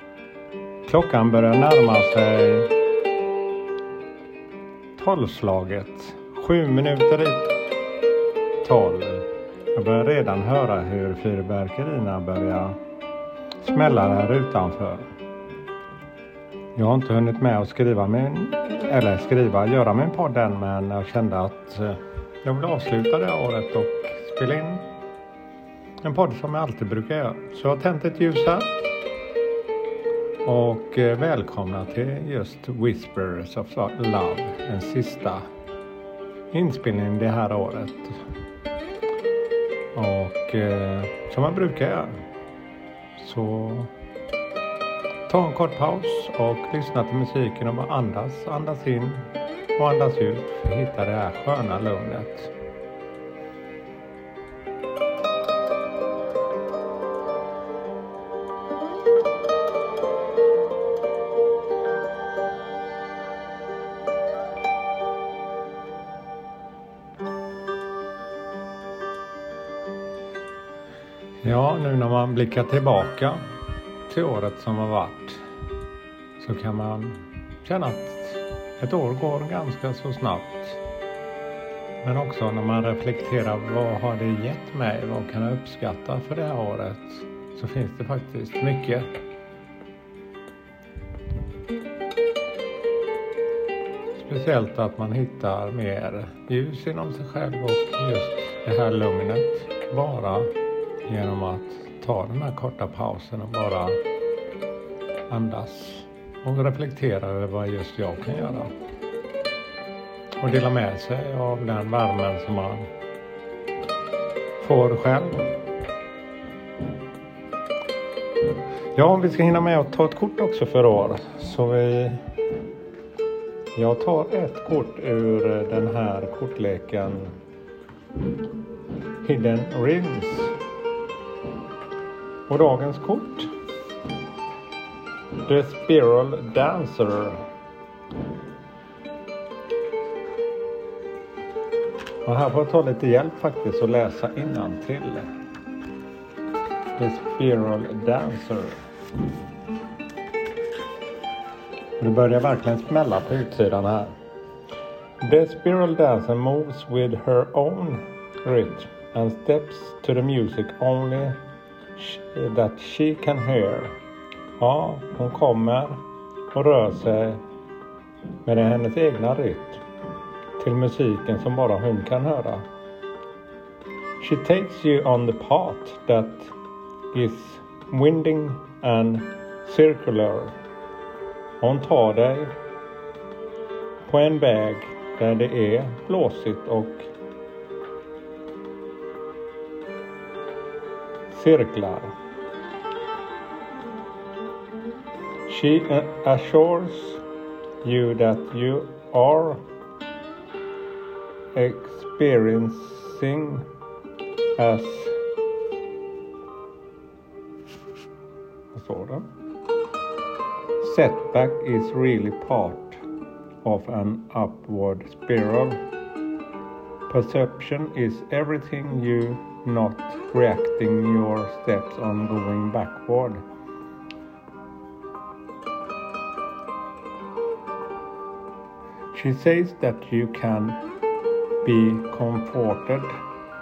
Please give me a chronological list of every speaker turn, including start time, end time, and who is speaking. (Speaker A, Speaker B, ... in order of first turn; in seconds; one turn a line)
Speaker A: 0.9-2.7
Speaker A: 5.0-7.6
Speaker A: 8.6-12.8
Speaker A: 13.6-15.1
Speaker A: 16.8-24.9
Speaker A: 26.0-28.8
Speaker A: 30.4-35.5
Speaker A: 36.5-38.2
Speaker A: 39.9-42.2
Speaker A: 43.2-43.9
Speaker A: 45.3-52.5
Speaker A: 71.4-73.4
Speaker A: 74.1-75.4
Speaker A: 76.4-80.8
Speaker A: 82.0-89.1
Speaker A: 94.2-100.5
Speaker A: 101.0-104.0
Speaker A: 105.3-108.7
Speaker A: 110.4-112.9
Speaker A: 114.6-115.5
Speaker A: 118.9-122.2
Speaker A: 123.8-127.3
Speaker A: 129.2-130.6
Speaker A: 132.5-133.5
Speaker A: 135.4-137.4
Speaker A: 142.2-145.3
Speaker A: 147.0-148.8
Speaker A: 152.0-154.1
Speaker A: 155.2-161.4
Speaker A: 162.0-163.9
Speaker A: 164.6-167.4
Speaker A: 168.4-169.8
Speaker A: 170.6-172.7
Speaker A: 174.2-176.6
Speaker A: 177.1-180.6
Speaker A: 181.6-182.5
Speaker A: 184.1-187.1
Speaker A: 191.3-192.2
Speaker A: 195.5-197.2
Speaker A: 197.8-199.6
Speaker A: 201.5-203.7
Speaker A: 204.6-205.2
Speaker A: 208.7-209.3
Speaker A: 210.8-213.0
Speaker A: 213.6-215.8
Speaker A: 217.1-223.4
Speaker A: 229.1-230.8
Speaker A: 231.6-233.2